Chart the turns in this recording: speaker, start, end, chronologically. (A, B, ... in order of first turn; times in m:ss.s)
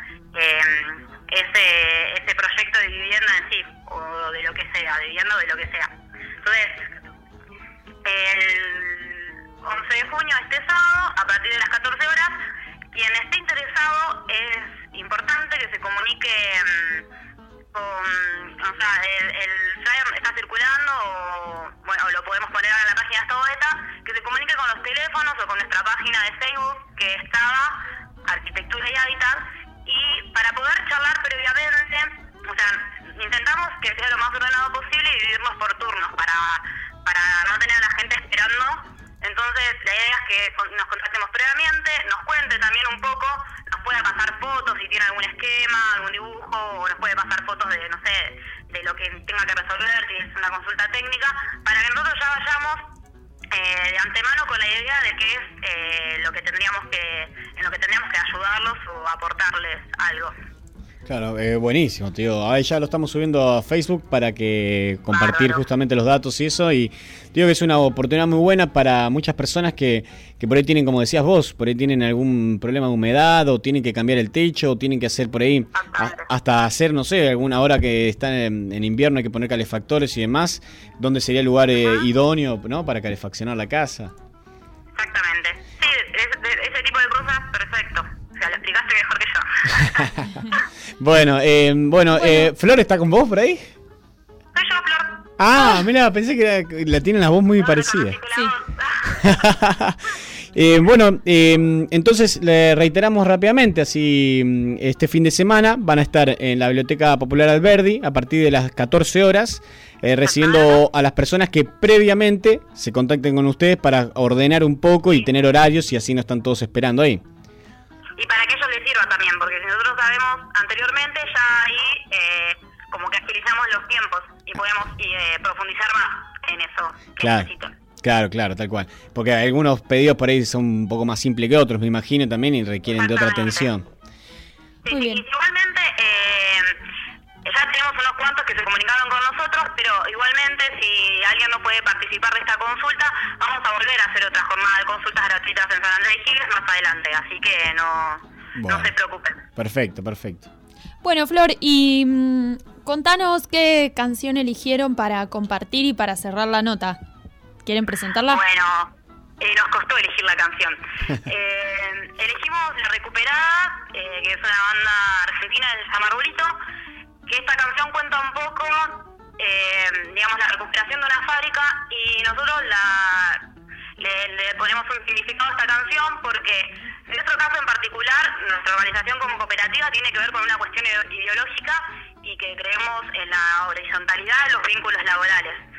0:00.3-0:05.9 A
0:06.4-0:06.8 A
0:08.0-0:12.3 A
0:12.9-0:17.0 A
0:17.7-0:27.7 A
0:28.2-0:52.8 A
0:53.5-1:00.3 A
1:01.0-1:24.1 B
1:05.1-1:05.6 A
1:25.0-1:29.4 A
1:31.0-1:33.7 B
1:32.2-1:32.5 C
1:34.5-1:35.1 A
1:35.4-1:38.2 B
1:39.2-1:40.0 B
1:40.5-1:57.2 B
1:58.2-2:07.7 A
2:07.2-2:07.5 B
2:08.0-2:13.8 B
2:13.0-2:13.7 A
2:14.8-2:16.7 A
2:14.9-2:15.2 C
2:17.4-2:29.4 A
2:28.6-2:28.9 B
2:29.6-2:30.5 B
2:31.0-2:37.0 C
2:37.6-2:38.4 C
2:38.3-2:38.9 A
2:39.4-2:46.5 A
2:47.3-2:53.4 A
2:54.0-3:05.6 A